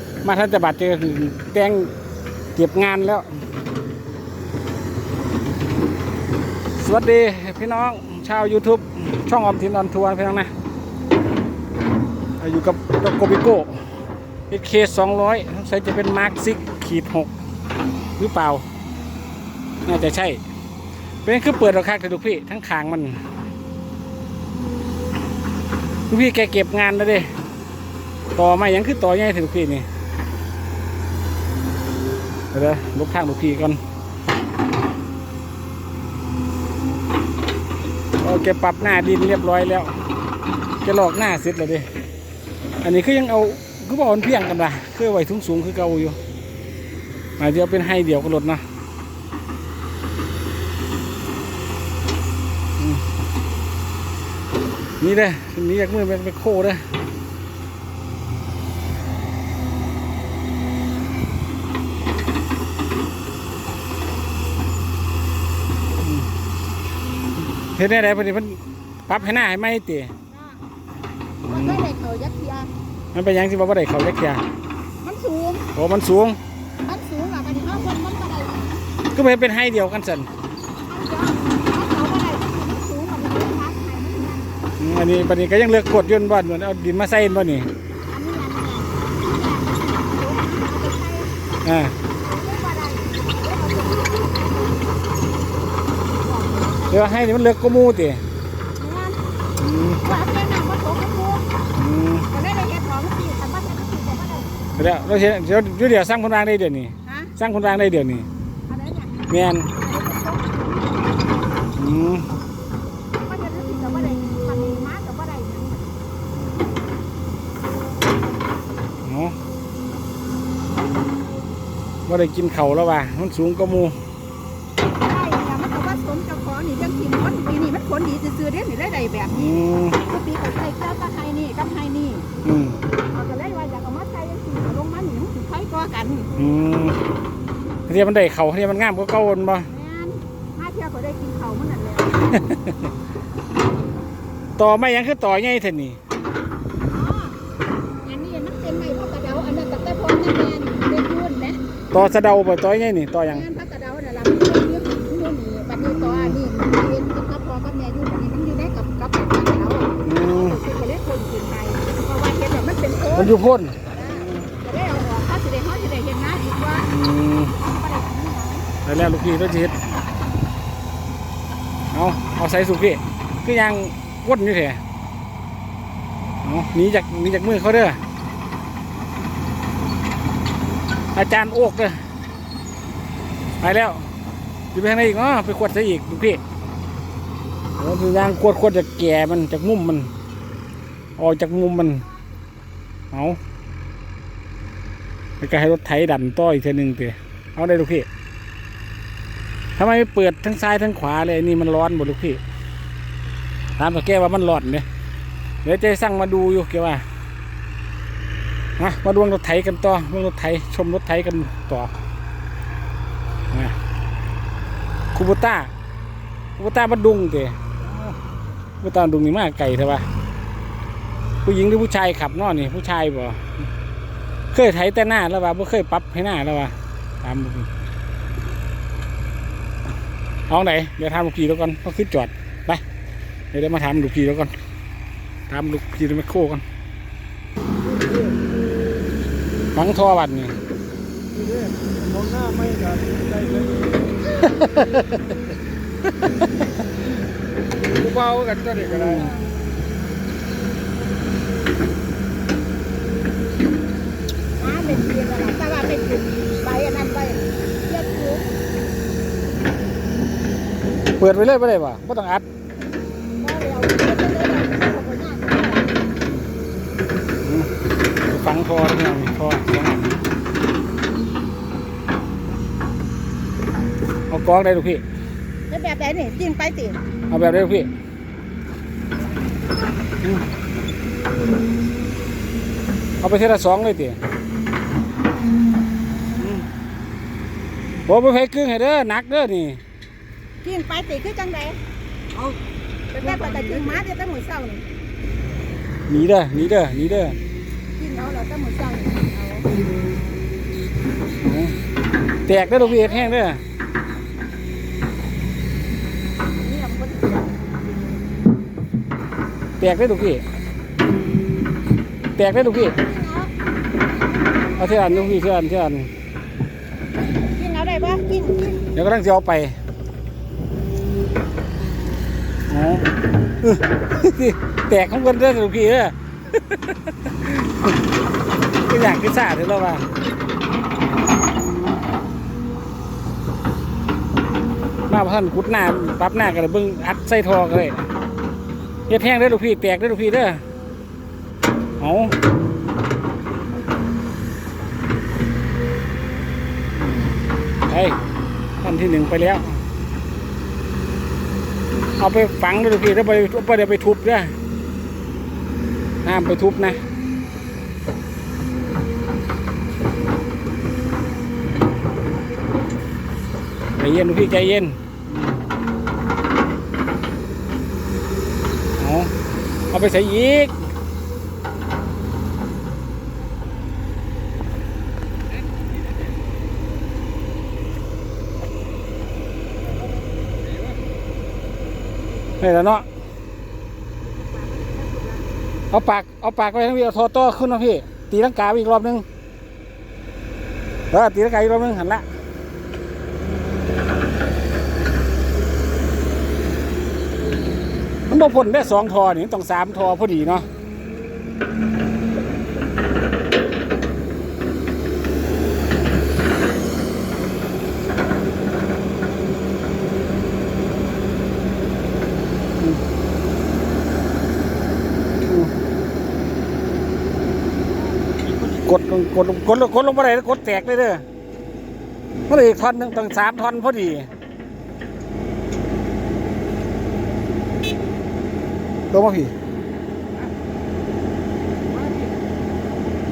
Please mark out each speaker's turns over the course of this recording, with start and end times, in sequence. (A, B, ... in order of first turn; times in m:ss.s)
0:00.2-0:01.9 A
0:02.5-0:03.3 A
0:06.8-0:10.5 A
0:12.4-0:13.7 A
0:14.5-0:17.3 A
0:18.2-0:18.6 A
0:19.8-0:20.4 A
0:21.2-0:23.2 A
0:26.1-0:27.3 A
0:28.4-0:29.9 A
0:32.5-0:33.8 A
0:38.2-0:40.0 A
0:40.8-0:41.9 A
0:42.8-0:46.2 A
0:47.4-0:48.6 A
0:55.0-0:56.9 A
1:06.0-1:06.3 A
1:07.8-1:10.1 A
1:10.3-1:10.6 B
1:11.4-1:11.9 A
1:11.4-1:12.7 B
1:13.1-1:14.4 A
1:15.0-1:15.7 B
1:15.7-1:16.4 A
1:16.8-1:18.8 B
1:19.1-1:20.3 A
1:20.8-1:24.6 B
1:24.8-1:27.7 A
1:28.1-1:31.3 B
1:31.6-1:32.0 A
1:32.1-1:34.9 B
1:36.2-1:37.2 B
1:36.9-1:38.2 A
1:38.8-1:39.2 B
1:39.6-1:40.0 A
1:40.0-1:41.4 B
1:41.8-1:42.3 A
1:42.3-1:44.5 B
1:44.8-1:48.3 A
1:47.1-1:47.3 B
1:48.7-1:51.0 B
1:49.3-1:49.7 A
1:51.8-1:52.3 A
1:53.2-1:56.0 B
1:59.0-1:59.4 A
2:02.0-2:04.0 A
2:05.0-2:12.3 B
2:09.3-2:10.0 A
2:12.4-2:12.8 A
2:13.1-2:16.3 B
2:16.4-2:17.0 A
2:17.9-2:19.7 A
2:19.7-2:22.3 B
2:22.4-2:22.9 A
2:24.6-2:26.0 A
2:26.9-2:27.4 B
2:28.0-2:31.6 B
2:31.9-2:33.4 A
2:33.2-2:46.9 B
2:36.1-2:36.4 A
2:40.0-2:40.6 A
2:43.1-2:43.8 A
2:46.9-2:47.5 A
2:47.4-2:48.7 B
2:48.8-2:49.8 A
2:51.9-2:54.8 A
2:56.4-2:58.0 A
3:01.1-3:02.0 A
3:03.6-3:04.1 A
3:04.7-3:06.4 A
3:07.8-3:10.1 A
3:11.2-3:12.0 A
3:13.1-3:13.4 A
3:15.4-3:18.1 A
3:19.8-3:22.4 A
3:23.8-3:24.8 A
3:25.6-3:27.0 A
3:28.8-3:31.9 A
3:33.5-3:33.8 A
3:35.1-3:35.7 A
3:36.6-3:37.9 A
3:38.8-3:40.0 A
3:41.4-3:43.6 A
3:44.5-3:47.7 A
3:50.5-3:52.8 A
3:53.5-3:54.5 A
3:55.5-3:56.6 A
3:59.7-4:00.6 A
4:01.3-4:04.2 C
4:04.4-4:05.2 A
4:08.0-4:09.3 C
4:14.6-4:18.5 B
4:21.2-4:22.4 A
4:23.4-4:25.9 B
4:27.4-4:27.7 A
4:28.2-4:30.2 A
4:34.3-4:35.0 A
4:35.7-4:37.0 B
4:37.3-4:37.9 A
4:43.2-4:44.2 A
4:46.4-4:46.7 A
4:48.1-4:49.8 A
4:50.6-4:51.8 B
4:53.1-4:54.8 B
4:56.1-4:57.4 A
4:58.0-4:59.7 B
5:01.4-5:01.8 A
5:02.5-5:03.6 A
5:02.5-5:03.4 B
5:06.6-5:07.5 B
5:09.8-5:10.4 A
5:12.4-5:13.0 A
5:12.8-5:13.5 B
5:14.4-5:15.4 B
5:14.8-5:16.1 A
5:17.4-5:18.8 B
5:18.9-5:19.8 A
5:22.7-5:23.1 A
5:23.6-5:27.9 A
5:28.9-5:30.1 A
5:35.1-5:38.1 A
5:39.1-5:40.6 A
5:42.0-5:42.4 A
5:47.9-5:48.2 A
5:48.8-5:49.8 A
5:52.2-5:54.6 A
5:56.2-5:57.0 A
6:04.0-6:05.6 A
6:09.0-6:09.3 A
6:09.9-6:10.8 A
6:22.6-6:23.1 A
6:24.2-6:25.6 B
6:25.9-6:29.2 A
6:31.1-6:32.2 A
6:38.3-6:40.7 A
6:55.4-6:55.7 A
6:58.8-7:01.2 A
7:02.5-7:04.3 A
7:09.1-7:09.5 A
7:11.9-7:12.3 C